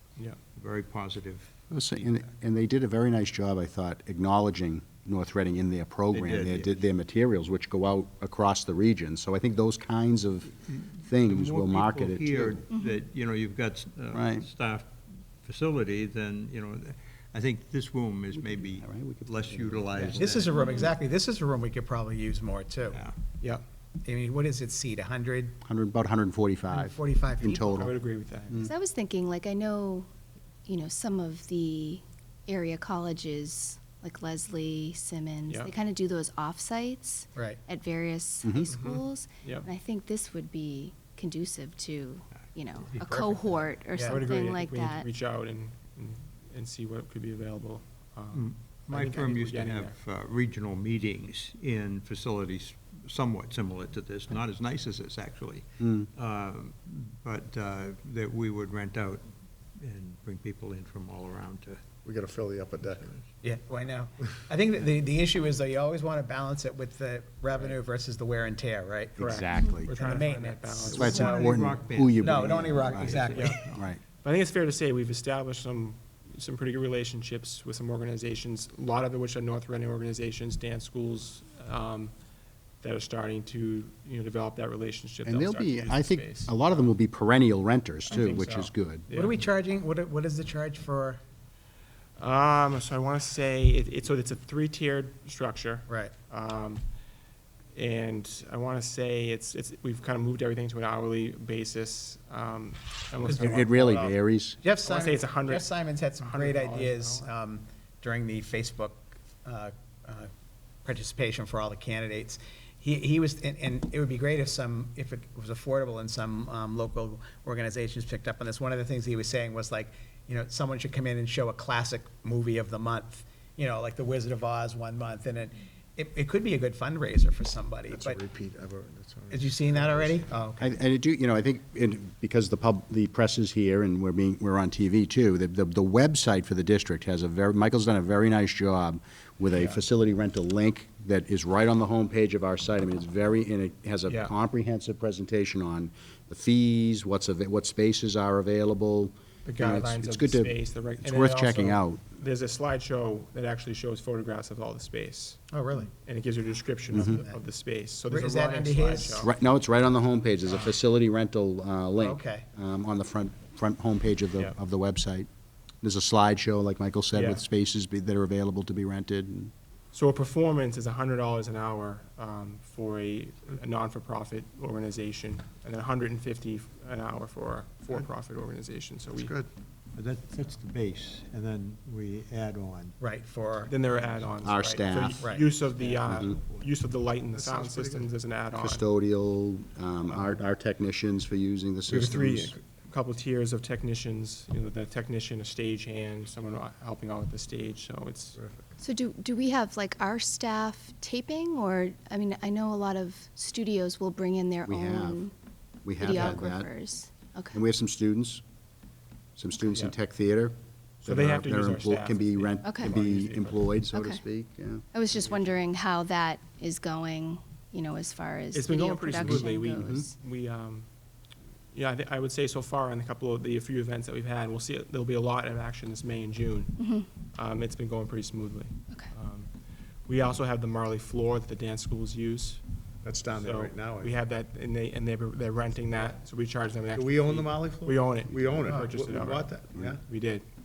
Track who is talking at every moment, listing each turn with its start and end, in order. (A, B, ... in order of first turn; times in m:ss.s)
0:00.5-0:02.2 A
0:01.7-0:12.6 B
0:06.1-0:06.8 A
0:10.7-0:20.5 A
0:12.7-0:13.0 C
0:14.1-0:14.5 B
0:18.4-0:20.2 B
0:20.1-0:23.0 D
0:20.5-0:20.9 C
0:22.9-0:23.2 A
0:24.0-0:25.6 D
0:25.6-0:27.9 B
0:26.7-0:27.8 D
0:27.5-0:28.7 E
0:28.6-0:30.1 C
0:30.7-0:45.1 C
0:38.4-0:38.7 B
0:38.7-0:39.7 E
0:42.9-0:44.3 D
0:44.4-0:50.0 E
0:48.3-1:01.9 A
0:55.8-0:56.1 B
1:02.0-1:03.0 F
1:02.8-1:03.2 A
1:03.4-1:09.2 D
1:09.2-1:09.9 B
1:09.2-1:10.9 E
1:09.9-1:13.6 D
1:10.8-1:13.8 A
1:10.9-1:14.0 B
1:14.2-1:22.1 E
1:22.8-1:26.9 E
1:25.2-1:29.1 B
1:28.3-1:29.3 E
1:29.1-1:31.2 D
1:32.2-1:36.8 E
1:35.9-1:36.1 D
1:37.7-1:44.2 E
1:43.2-1:43.6 D
1:43.3-1:44.6 B
1:44.6-1:50.3 D
1:44.9-1:45.6 E
1:46.2-1:47.3 E
1:50.8-2:08.2 D
2:07.9-2:10.3 F
2:09.3-2:10.8 D
2:10.6-2:32.0 B
2:29.4-2:35.4 E
2:35.5-2:35.9 D
2:36.1-2:39.3 E
2:36.9-2:37.4 D
2:36.9-2:37.2 B
2:38.1-2:39.3 D
2:39.2-2:45.3 B
2:42.0-2:42.5 D
2:45.8-2:49.5 B
2:47.2-2:47.4 E
2:49.9-2:59.3 E
2:59.1-2:59.5 F
2:59.9-3:03.0 A
3:03.0-3:03.7 D
3:03.7-3:08.8 E
3:04.4-3:05.3 B
3:05.2-3:05.5 D
3:05.8-3:06.6 A
3:07.2-3:08.1 F
3:08.6-3:12.5 B
3:10.1-3:10.4 E
3:12.0-3:18.4 E
3:18.4-3:18.6 F
3:18.8-3:25.3 C
3:24.7-3:25.2 B
3:25.8-3:26.8 B
3:26.0-3:27.6 C
3:27.5-3:28.4 B
3:29.4-3:34.8 B
3:31.1-3:33.6 E
3:32.6-3:32.9 C
3:33.9-3:34.2 C
3:34.9-3:40.1 C
3:35.2-3:35.6 E
3:38.5-3:40.9 E
3:39.2-3:40.1 B
3:41.7-3:46.8 E
3:46.8-3:47.1 C
3:47.3-3:49.5 E
3:50.1-3:52.6 E
3:53.0-3:54.2 F
3:53.4-4:00.4 E
3:56.9-4:00.0 F
3:58.7-3:58.9 D